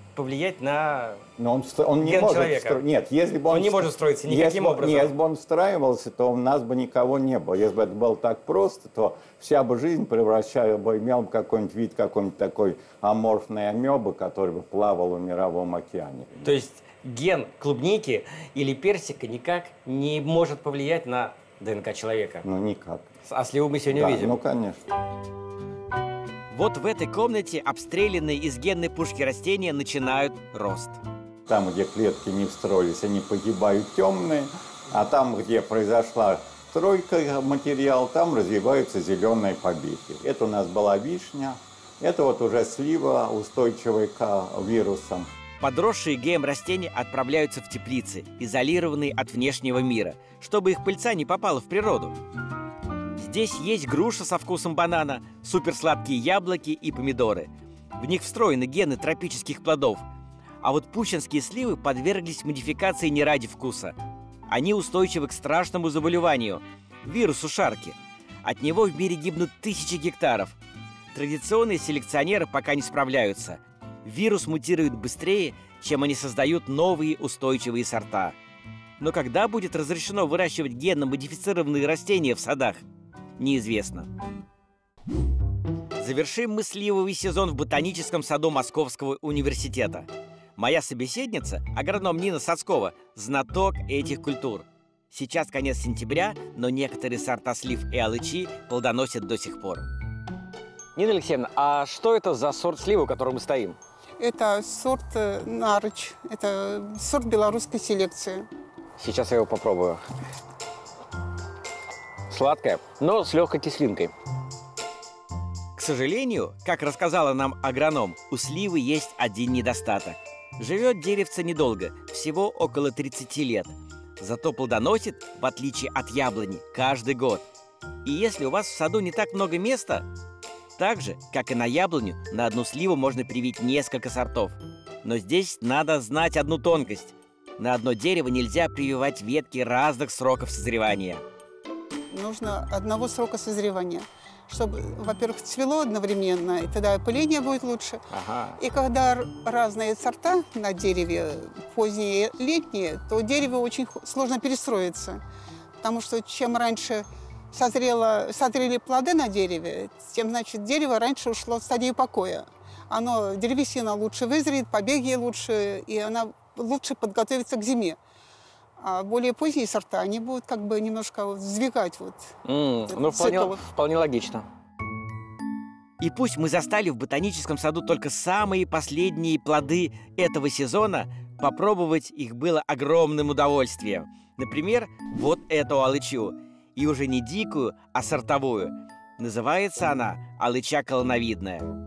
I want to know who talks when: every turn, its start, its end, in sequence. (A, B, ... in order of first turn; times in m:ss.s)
0:00.2-0:01.2 A
0:01.4-0:16.5 B
0:02.0-0:02.8 A
0:03.5-0:05.1 A
0:16.4-0:22.5 A
0:22.4-0:23.1 B
0:23.2-0:24.4 A
0:23.9-0:24.8 B
0:26.5-0:31.0 A
0:31.5-0:45.3 B
0:45.6-0:52.2 A
0:53.2-1:00.0 A
1:00.6-1:03.9 A
1:04.5-1:10.6 A
1:11.1-1:18.4 A
1:19.0-1:22.8 A
1:23.4-1:24.1 A
1:26.0-1:39.8 A
1:41.0-1:43.8 A
1:44.2-1:48.5 C
1:49.0-1:50.0 A
1:52.3-1:54.1 A
1:55.8-2:07.4 A
2:08.0-2:10.1 A
2:10.8-2:21.2 A
2:22.1-2:28.0 C
2:28.1-2:28.6 A
2:28.6-2:35.2 C
2:35.8-2:48.0 C
2:48.8-2:53.6 C
2:52.4-2:54.4 A
2:56.0-3:11.7 A